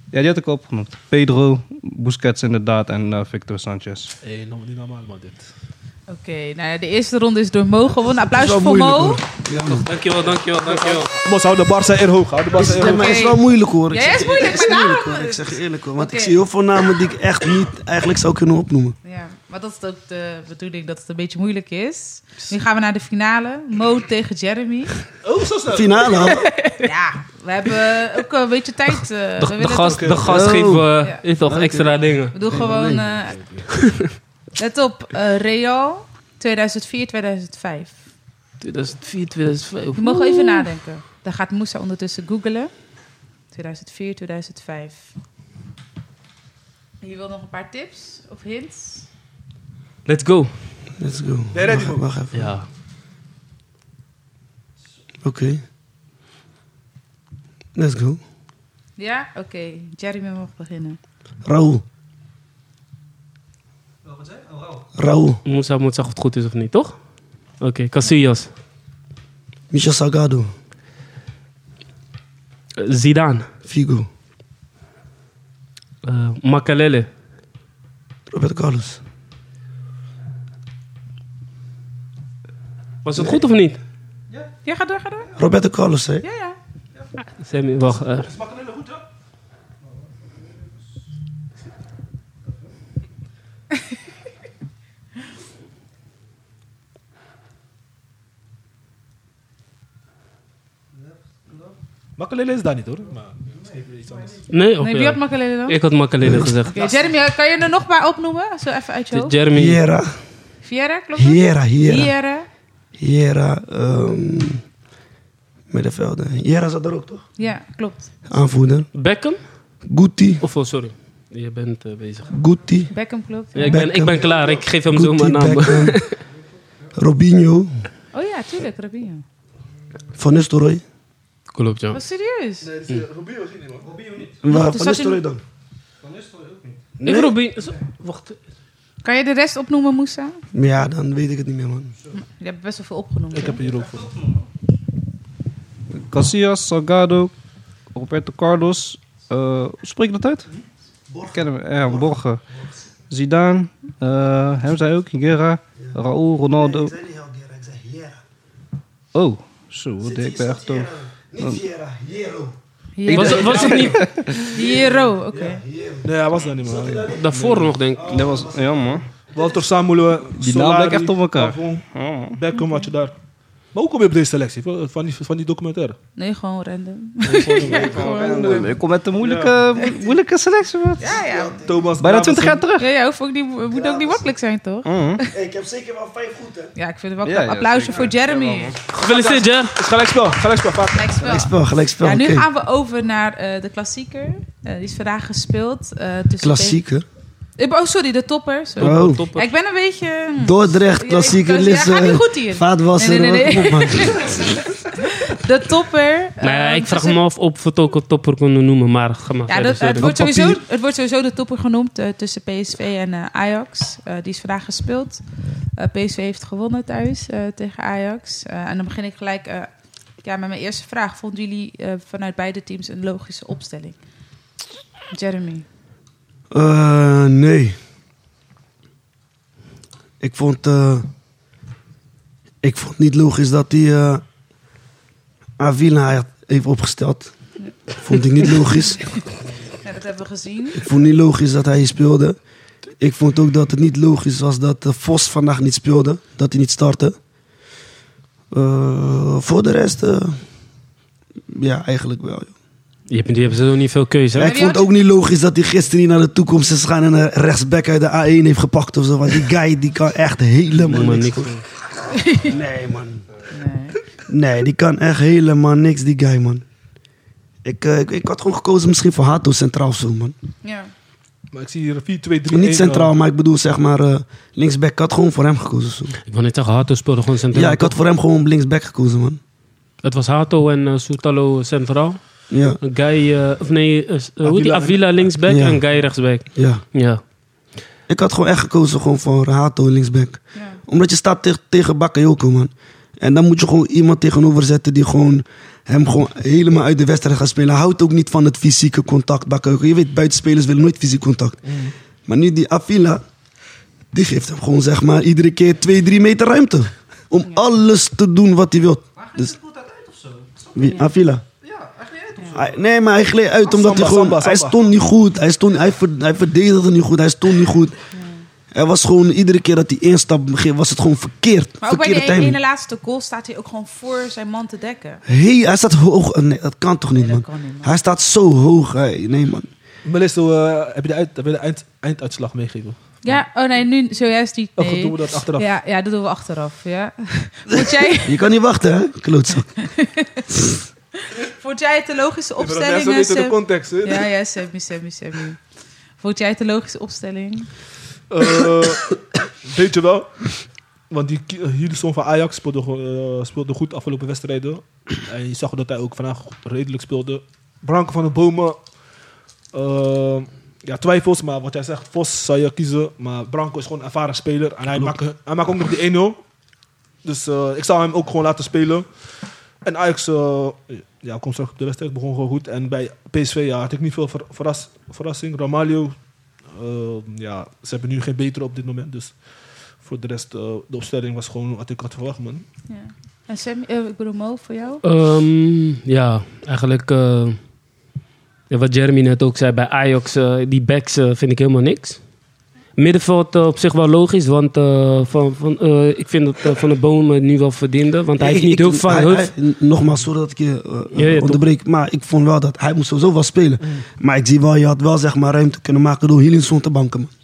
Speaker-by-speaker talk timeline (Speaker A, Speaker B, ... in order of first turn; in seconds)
Speaker A: 0.1-4.1, 64.1-64.8, 133.8-134.4, 136.0-136.9, 143.7-144.4, 146.1-147.3, 147.9-150.5, 151.3-152.4, 153.1-156.9, 159.1-161.6, 163.1-164.5, 168.1-169.1, 170.4-172.4, 177.5-181.1, 182.0-182.8, 184.8-185.2, 187.2-188.8, 309.2-310.9, 311.6-312.7
Speaker B: 4.2-5.4, 10.6-13.3, 25.2-26.1, 29.9-30.3, 33.3-33.7, 51.5-52.1, 88.2-88.9, 102.2-104.4, 132.6-133.9, 143.3-144.1, 163.4-163.8, 166.0-167.7, 169.3-173.1, 173.7-176.0, 177.3-179.6, 181.6-182.7, 189.0-191.2, 271.5-273.1, 284.4-285.3, 301.7-301.9, 313.6-314.8, 330.1-333.1, 334.8-335.7, 342.6-344.3, 348.3-350.6, 351.1-358.8, 359.7-366.4, 367.2-369.1, 369.8-376.1, 376.7-379.4, 380.0-382.6
Speaker C: 6.1-9.2, 12.7-16.4, 19.0-25.0, 26.3-30.1, 32.3-33.4, 34.6-38.0, 40.0-42.7, 43.5-45.1, 47.0-49.1, 59.0-61.0, 84.7-85.3, 86.2-86.6, 104.8-105.8, 106.7-109.4, 110.6-112.5, 117.4-118.1, 122.9-123.8, 128.1-129.2, 131.9-132.7, 134.5-135.2, 139.0-140.4, 142.1-143.6, 163.0-165.6, 176.2-178.7, 181.0-181.7, 182.8-185.3, 186.8-188.8, 190.9-196.8, 197.6-207.2, 209.5-215.2, 215.8-219.7, 220.2-224.0, 225.1-225.7, 238.5-239.1, 239.8-240.8, 254.4-254.9, 262.1-262.5, 263.5-264.0, 270.6-270.9, 290.6-290.8, 318.1-318.4, 321.8-325.2, 327.1-328.0, 333.2-338.5, 339.8-340.5, 341.2-345.6, 346.2-347.7, 382.9-385.0
Speaker D: 8.2-9.9, 12.5-19.0, 25.7-26.5, 30.2-30.9, 31.5-33.1, 51.0-52.6, 55.2-55.6, 57.8-58.2, 61.5-61.8, 65.0-65.4, 69.7-70.5, 73.7-74.1, 78.3-79.0, 85.4-86.2, 106.2-106.6, 109.5-110.2, 111.2-112.1, 113.0-114.6, 115.7-117.2, 118.3-118.9, 119.9-120.4, 122.3-122.9, 123.7-124.4, 124.9-126.0, 127.0-127.8, 130.2-130.8, 134.4-135.4, 137.0-137.3, 140.5-141.9, 151.1-152.1, 156.5-158.2, 160.0-162.6, 163.5-163.8, 164.6-169.4, 181.1-181.7, 183.7-184.3, 185.3-186.7, 191.2-192.5, 196.4-197.1, 198.8-199.2, 200.4-204.6, 210.0-210.6, 226.5-227.8, 230.2-231.1, 232.6-234.2, 235.6-237.3, 237.9-239.1, 240.7-242.4, 243.0-247.2, 248.5-250.4, 251.5-252.5, 254.3-261.5, 262.4-263.2, 264.3-266.6, 267.6-270.4, 272.5-276.2, 277.5-279.4, 282.5-282.8, 285.5-285.8, 286.5-286.8, 288.1-301.6, 302.3-303.2, 304.1-309.5, 310.8-311.4, 312.5-318.0, 318.7-322.6, 325.3-329.7, 338.2-339.7, 398.4-407.3
Speaker E: 9.7-11.1, 29.4-32.3, 38.6-40.7, 50.1-50.5, 52.3-52.7, 65.5-66.9, 67.6-68.5, 72.8-73.5, 76.0-77.1, 83.0-83.8, 87.3-88.3, 104.5-106.8, 109.1-109.8, 119.0-119.4, 120.4-122.3, 123.5-126.2, 131.5-132.0, 137.0-138.4, 163.1-164.0, 167.1-168.1, 188.9-189.8, 198.8-199.5, 206.4-210.1, 253.1-254.6, 260.8-261.6, 276.3-277.9, 280.0-282.2, 282.8-287.2, 385.0-387.6, 388.7-392.2, 393.0-399.5, 401.1-401.6